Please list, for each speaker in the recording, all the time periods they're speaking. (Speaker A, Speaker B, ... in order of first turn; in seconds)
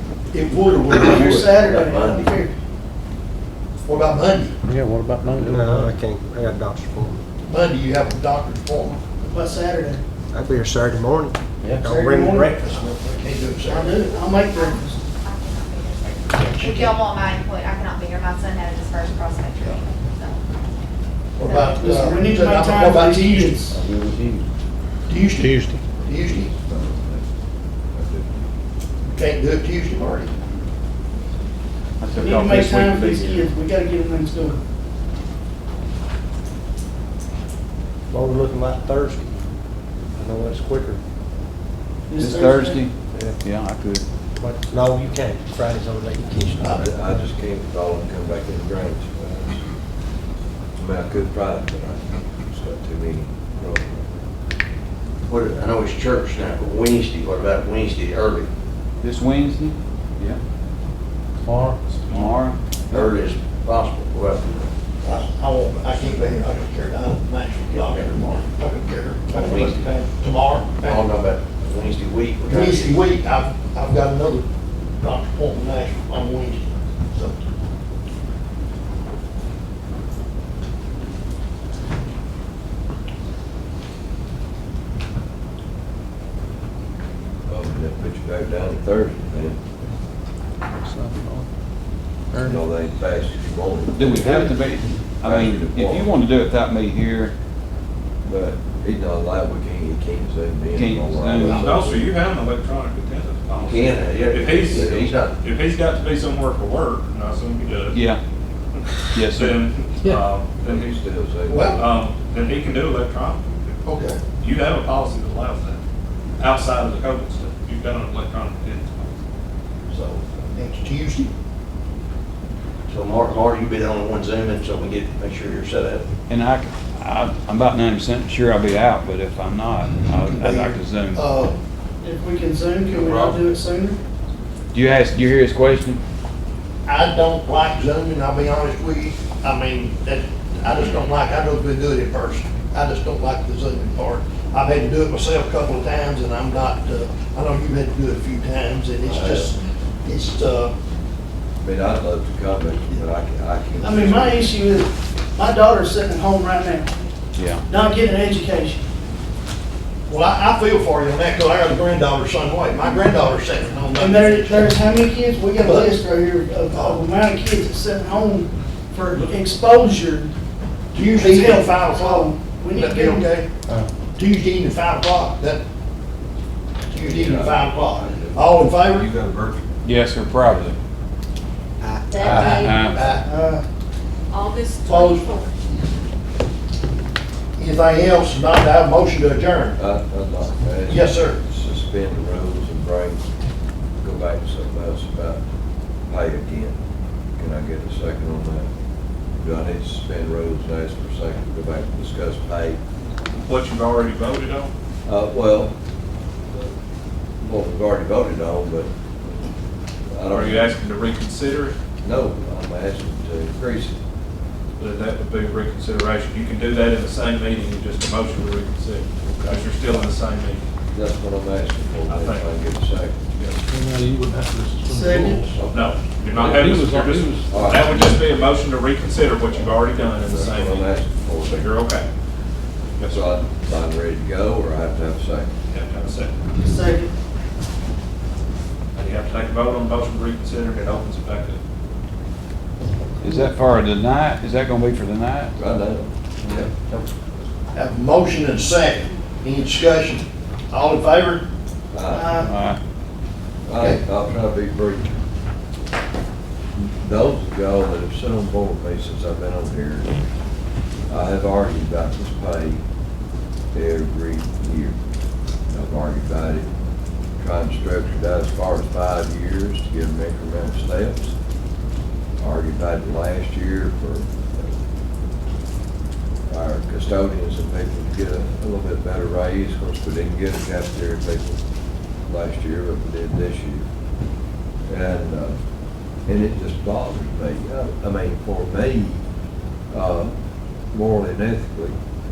Speaker A: 0.3-1.8, 3.8-4.5, 7.5-9.0, 12.5-14.2, 16.4-17.0, 21.4-23.6, 25.1-26.5, 29.1-30.3, 46.6-46.9, 65.0-71.1, 72.5-77.3, 101.4-101.7, 111.5-111.8, 113.8-114.2, 119.9-121.3, 130.2-131.6, 136.8-150.7, 160.1-164.8, 165.6-166.0, 166.7-167.0, 170.9-173.5, 174.2-175.6, 176.9-179.1, 182.2-183.3, 184.8-185.3, 187.6-189.8, 190.9-191.4, 247.7-251.4
Speaker B: 1.0-1.5, 32.0-33.5, 42.1-44.0, 59.0-60.4, 62.1-63.1, 93.9-97.3, 100.7-101.7, 107.9-108.2, 109.1-109.6, 126.3-131.2, 134.7-136.0, 157.3-157.6, 179.8-180.8, 182.2-183.0, 243.2-245.5, 252.4-252.8
Speaker C: 1.1-2.5, 9.2-10.0, 11.8-12.6, 13.6-15.0, 21.7-23.8, 32.1-34.6, 42.1-42.9, 132.0-134.0, 153.8-156.9, 157.6-158.8, 163.9-170.3, 171.0-173.3, 183.2-183.6, 224.8-225.6, 236.6-237.1, 252.1-252.5
Speaker D: 1.7-2.2, 55.3-58.5, 62.9-64.7, 69.3-69.9, 70.8-73.0, 103.5-105.3, 122.9-126.0
Speaker E: 4.7-5.3, 90.8-91.5, 223.7-225.4, 226.6-227.5
Speaker F: 5.4-7.2, 10.3-12.9, 38.1-39.5, 40.1-41.0, 44.4-46.8
Speaker G: 14.1-20.4, 21.4-22.2
Speaker H: 26.1-27.2, 27.9-28.5, 46.7-49.6, 50.8-54.2, 87.5-89.6, 92.4-94.6, 95.2-96.1, 98.2-102.2, 104.7-105.1, 110.6-111.9, 149.0-149.5, 151.6-154.6, 177.0-179.6, 180.4-180.7, 189.8-193.2, 194.0-195.4, 196.1-196.8, 197.4-198.7, 199.4-202.8, 205.1-205.7, 207.4-208.9, 210.1-210.8, 212.0-213.9, 219.3-220.0, 220.9-223.2, 225.4-226.8, 227.5-228.1, 230.2-231.7, 233.0-235.5, 245.6-246.7, 251.9-252.4, 253.7-255.1, 257.0-260.1, 261.1-262.8, 263.7-265.0, 265.7-266.7, 267.4-271.3, 272.4-274.7, 276.5-281.6, 282.3-283.9, 284.9-285.6, 286.2-289.2, 289.9-290.3, 290.9-292.0
Speaker I: 101.5-108.0, 108.8-111.0, 111.7-113.5, 114.4-115.8, 116.4-119.2, 203.4-204.7, 210.3-211.8, 214.8-220.6, 222.1-222.5, 223.4-223.6, 225.7-232.1, 233.0-233.3, 235.7-236.4, 238.9-241.6
Speaker J: 182.1-183.2, 184.3-185.6